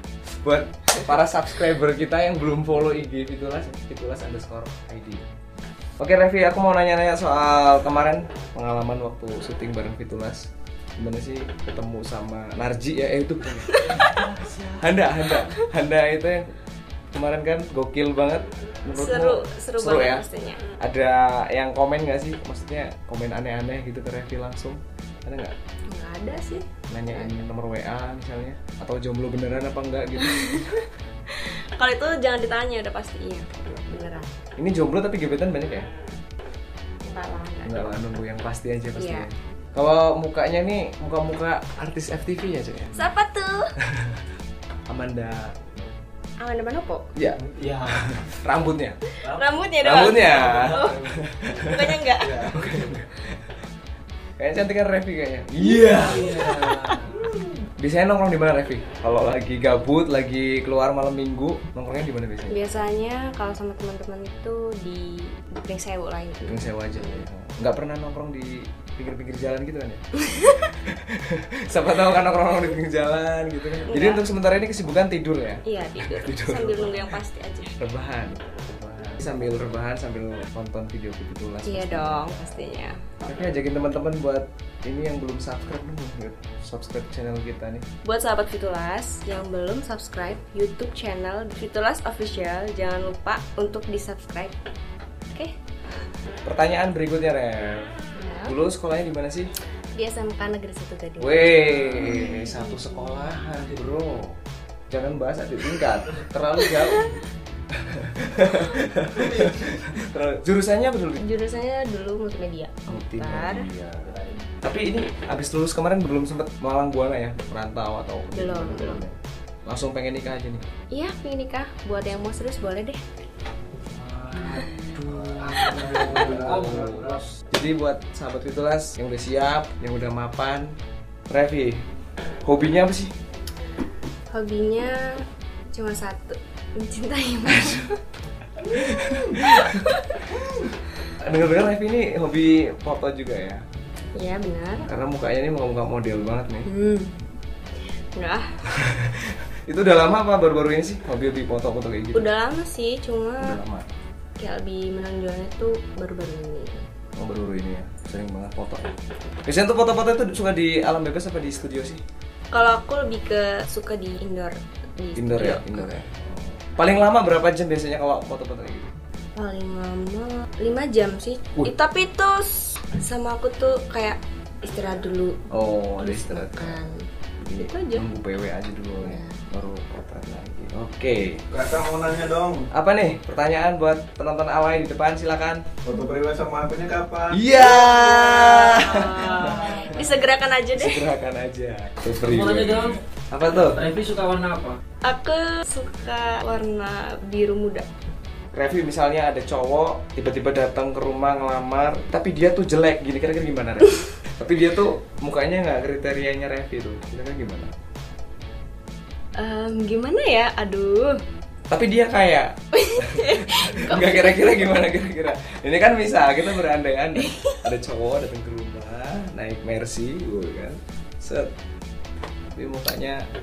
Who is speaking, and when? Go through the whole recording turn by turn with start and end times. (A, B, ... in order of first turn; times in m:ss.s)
0:00.3-0:05.3 A
0:06.0-0:16.5 A
0:13.7-0:14.3 B
0:17.1-0:20.3 A
0:18.9-0:20.6 B
0:20.8-0:25.6 A
0:25.9-0:27.4 B
0:26.9-0:30.8 A
0:30.2-0:34.3 B
0:34.6-0:35.9 A
0:37.1-0:37.9 B
0:37.6-0:43.1 A
0:39.0-0:39.3 B
0:42.9-0:43.7 B
0:43.8-0:44.2 A
0:44.9-0:45.5 A
0:46.4-0:47.1 B
0:47.2-0:49.0 A
0:47.6-0:48.0 C
0:49.1-0:52.5 B
0:49.8-0:53.5 A
0:52.2-0:52.5 D
0:54.4-0:57.0 A
0:55.8-0:57.0 B
0:56.2-0:57.3 C
0:57.8-1:02.6 A
1:02.5-1:07.2 B
1:06.5-1:10.0 A
1:10.2-1:10.7 B
1:10.6-1:17.2 A
1:13.8-1:14.2 B
1:15.6-1:17.8 B
1:17.8-1:27.9 A
1:21.6-1:23.0 B
1:28.0-1:34.6 B
1:36.4-1:37.9 A
1:38.2-1:38.6 B
1:38.4-1:39.5 A
1:40.0-1:42.5 B
1:41.2-1:44.4 A
1:44.9-1:51.2 A
1:46.7-1:47.2 B
1:51.2-1:53.7 B
1:52.9-2:00.6 A
1:58.3-1:59.0 B
2:00.9-2:03.0 B
2:04.0-2:04.4 C
2:04.3-2:10.8 A
2:04.4-2:04.9 B
2:05.4-2:07.4 C
2:06.3-2:06.5 D
2:11.3-2:11.8 A
2:12.4-2:13.1 A
2:14.3-2:15.2 B
2:15.7-2:18.0 B
2:17.5-2:17.9 A
2:18.7-2:19.9 A
2:19.1-2:20.3 B
2:21.2-2:23.6 A
2:24.2-2:24.9 B
2:24.8-2:26.7 A
2:26.7-2:27.2 B
2:28.2-2:28.6 B
2:28.7-2:32.3 A
2:32.2-2:33.6 B
2:33.4-2:33.9 A
2:34.4-2:36.8 B
2:37.2-2:42.0 A
2:42.5-2:45.9 B
2:45.2-2:48.9 A
2:49.4-2:55.4 B
2:55.5-2:56.8 A
2:56.0-2:57.1 B
2:57.4-3:01.4 A
2:57.6-2:58.0 B
2:59.0-2:59.4 B
3:01.5-3:02.7 D
3:02.7-3:05.6 A
3:05.8-3:07.4 D
3:07.3-3:10.2 A
3:07.6-3:11.1 B
3:10.7-3:13.9 A
3:12.2-3:13.0 C
3:13.7-3:14.8 C
3:15.0-3:17.9 B
3:18.5-3:27.7 A
3:29.4-3:31.2 B
3:31.7-3:41.5 A
3:32.7-3:34.7 B
3:37.2-3:37.6 B
3:42.5-3:43.2 A